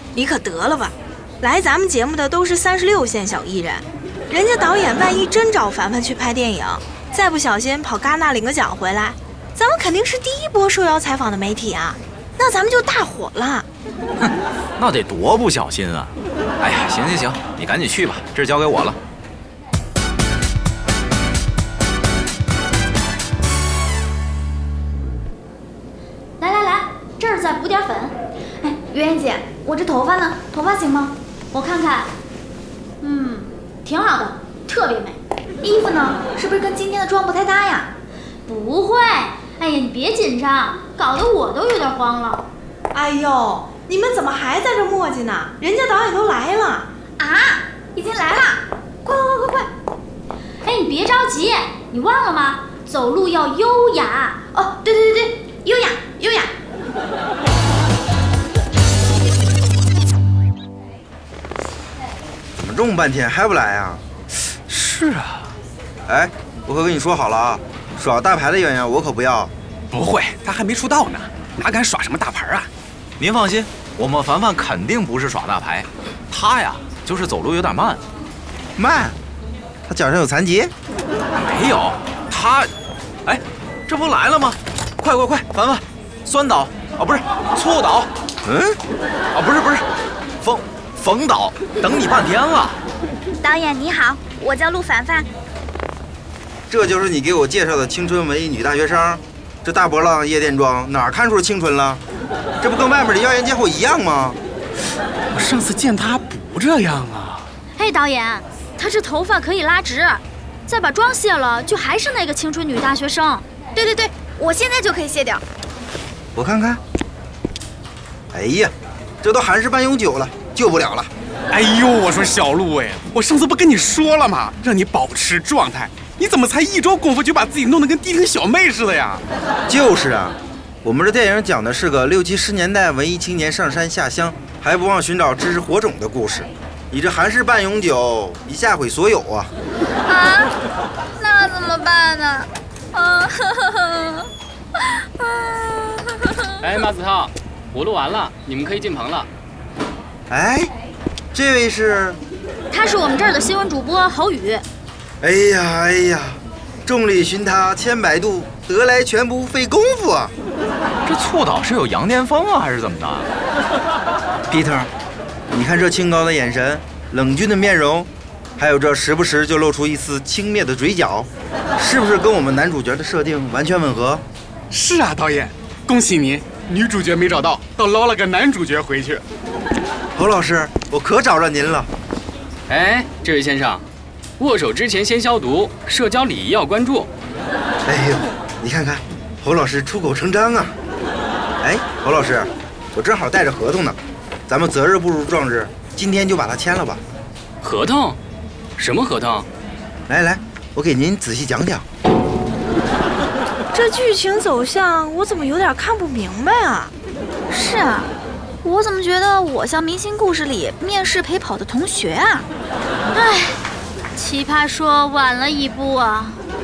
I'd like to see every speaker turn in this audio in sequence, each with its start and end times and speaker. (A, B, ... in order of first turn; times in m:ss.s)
0:00.2-0:13.7 A
0:14.3-0:19.0 B
0:26.4-0:28.1 C
0:28.6-0:31.2 D
0:31.5-0:32.1 C
0:33.0-0:35.2 C
0:33.0-0:33.4 D
0:35.6-0:37.9 D
0:38.5-0:42.5 C
0:42.9-0:46.9 A
0:47.2-0:49.6 D
0:50.6-0:54.4 C
0:54.5-0:56.5 D
1:02.6-1:04.0 E
1:04.7-1:05.4 F
1:06.1-1:09.5 E
1:09.9-1:12.7 F
1:13.2-1:18.0 B
1:18.8-1:19.2 E
1:19.9-1:20.7 E
1:21.3-1:22.7 B
1:23.3-1:28.1 B
1:28.4-1:28.8 E
1:29.3-1:29.9 B
1:30.4-1:32.8 B
1:33.4-1:35.3 D
1:36.7-1:42.0 E
1:42.6-1:44.4 E
1:45.3-1:47.4 F
1:47.8-1:53.4 C
1:53.8-1:55.4 D
1:56.4-1:56.8 E
1:58.3-2:01.1 E
2:01.5-2:09.2 F
2:09.7-2:19.5 E
2:20.1-2:20.5 D
2:21.2-2:24.3 D
2:24.9-2:26.6 D
2:26.6-2:29.3 G
2:30.3-2:30.7 E
2:31.3-2:32.2 E
2:32.7-2:34.7 C
2:35.2-2:40.3 E
2:41.0-2:43.3 B
2:44.5-2:44.9 E
2:45.5-2:54.2 E
2:54.7-2:59.2 F
3:00.2-3:01.9 E
3:02.7-3:03.8 G
3:04.4-3:07.1 G
3:07.9-3:10.8 E
3:11.6-3:17.0 E
3:17.6-3:18.2 G
3:18.8-3:19.5 G
3:20.1-3:21.8 E
3:23.7-3:26.9 A
3:27.5-3:28.1 D
3:28.6-3:32.5 D
3:33.1-3:33.6 C
3:34.1-3:36.4 C